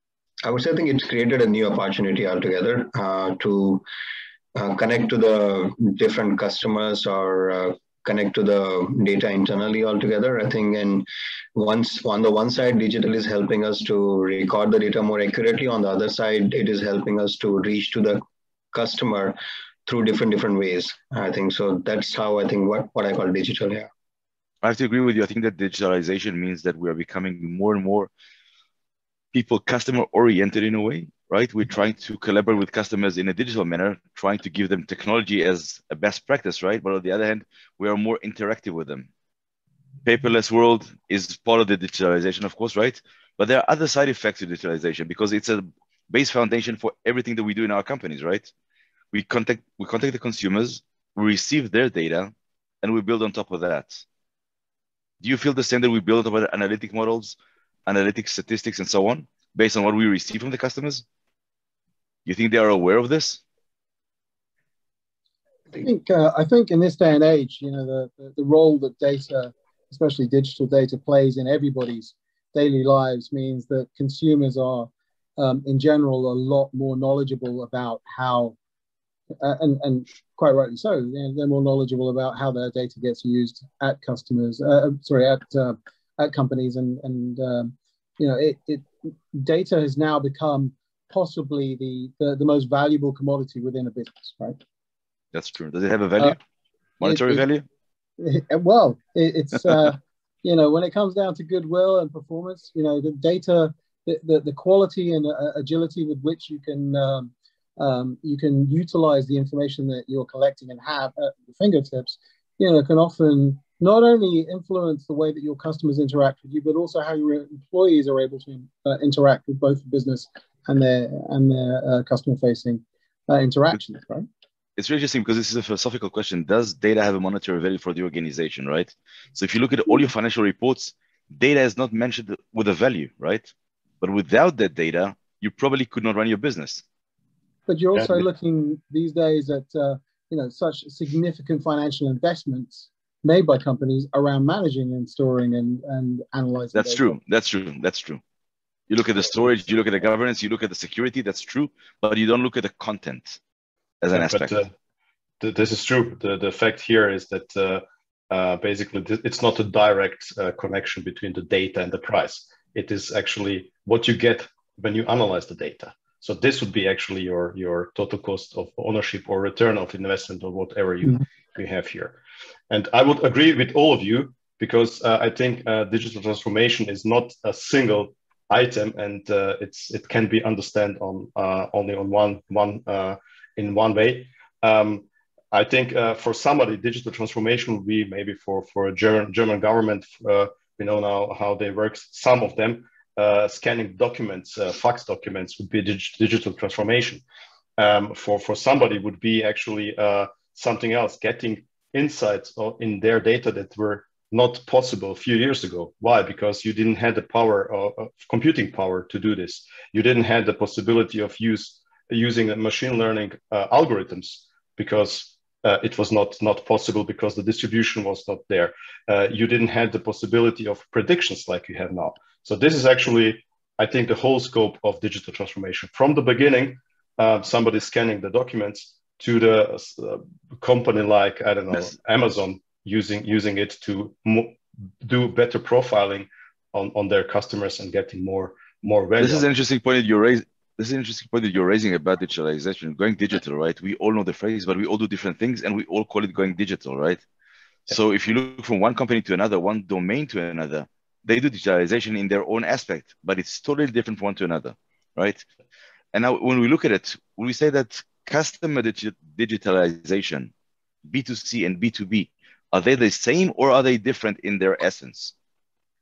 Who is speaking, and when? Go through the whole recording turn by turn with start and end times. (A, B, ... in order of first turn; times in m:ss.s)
0:00.4-0:03.8 A
0:04.6-0:23.9 A
0:24.6-0:28.1 B
0:29.3-0:39.1 B
0:40.0-0:48.5 B
0:49.1-0:54.0 B
0:55.2-1:01.0 B
1:02.3-1:03.4 B
1:05.8-1:18.6 C
1:19.4-1:34.6 C
1:35.3-1:36.4 B
1:37.0-1:37.6 B
1:37.0-1:37.4 C
1:38.2-2:04.3 C
2:04.8-2:16.8 B
2:17.7-2:27.2 C
2:26.7-2:28.2 B
2:28.9-2:33.4 B
2:34.0-2:34.6 B
2:34.1-2:34.7 D
2:35.4-2:52.2 D
2:52.7-3:17.2 D
3:17.8-3:59.5 D
3:59.2-4:07.2 B
4:07.9-4:15.5 B
4:16.1-4:20.5 B
4:21.1-4:25.3 B